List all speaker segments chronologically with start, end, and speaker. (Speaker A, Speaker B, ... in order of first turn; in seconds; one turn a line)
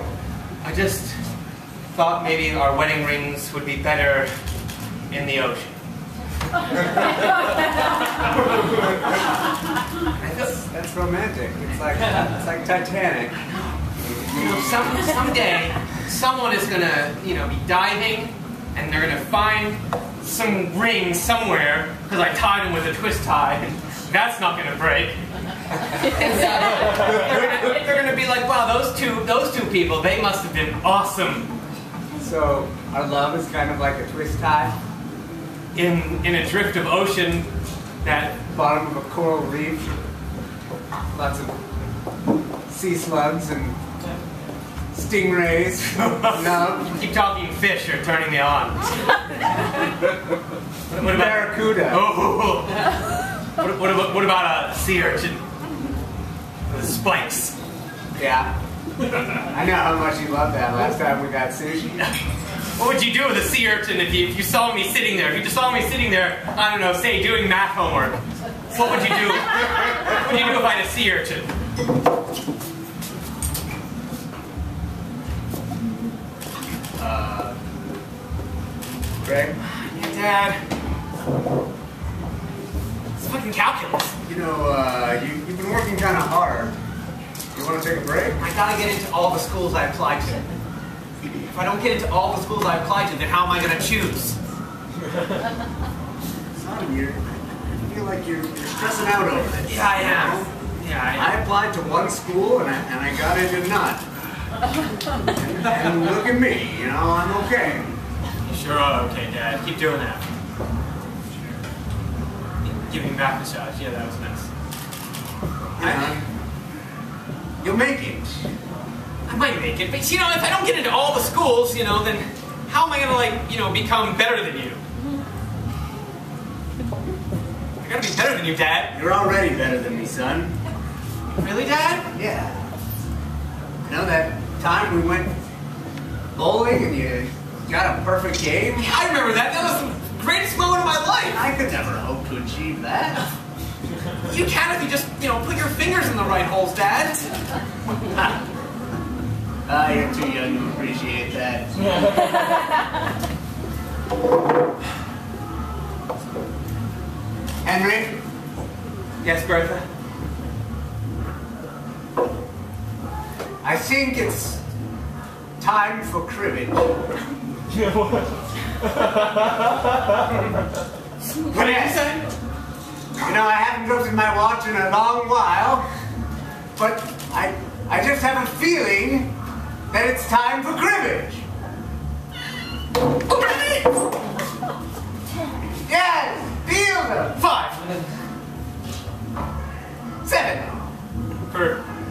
Speaker A: 0.6-1.1
Speaker A: 1.9-4.3
Speaker A: 5.1-5.8
Speaker A: 10.2-10.5
Speaker B: 10.4-13.4
Speaker B: 14.0-15.0
Speaker A: 14.3-25.2
Speaker A: 25.8-31.5
Speaker B: 32.2-34.8
Speaker A: 35.7-37.5
Speaker A: 38.0-38.4
Speaker B: 38.5-40.0
Speaker B: 41.1-41.6
Speaker B: 42.7-43.8
Speaker B: 44.9-47.0
Speaker A: 45.9-49.1
Speaker A: 50.9-52.8
Speaker B: 51.0-52.0
Speaker A: 53.5-55.4
Speaker A: 56.7-57.5
Speaker B: 58.1-58.5
Speaker B: 59.5-62.1
Speaker A: 62.8-68.2
Speaker A: 68.7-71.5
Speaker B: 77.0-77.5
Speaker B: 79.2-79.6
Speaker A: 79.6-80.6
Speaker A: 83.2-84.1
Speaker B: 84.2-86.7
Speaker B: 87.5-88.4
Speaker A: 88.4-90.4
Speaker A: 91.5-94.3
Speaker B: 96.5-100.5
Speaker A: 99.7-101.3
Speaker B: 101.1-104.0
Speaker B: 105.3-107.9
Speaker A: 108.4-110.2
Speaker A: 112.6-114.5
Speaker B: 115.8-116.2
Speaker A: 115.8-116.2
Speaker B: 117.6-118.5
Speaker A: 119.2-124.8
Speaker A: 127.8-128.9
Speaker B: 128.9-130.6
Speaker A: 131.4-132.1
Speaker B: 132.1-132.6
Speaker B: 133.8-135.3
Speaker B: 136.3-138.9
Speaker A: 138.8-141.4
Speaker B: 141.3-143.3
Speaker A: 144.2-147.2
Speaker B: 149.7-152.2
Speaker B: 157.6-158.2
Speaker A: 159.2-159.8
Speaker B: 163.6-164.6
Speaker B: 165.6-166.9
Speaker A: 171.5-172.3
Speaker B: 171.5-172.0
Speaker B: 173.2-175.8
Speaker B: 176.8-179.3
Speaker B: 179.9-181.4
Speaker A: 183.3-183.8
Speaker B: 185.8-187.4
Speaker A: 187.3-188.0
Speaker B: 190.2-190.8
Speaker A: 191.5-191.8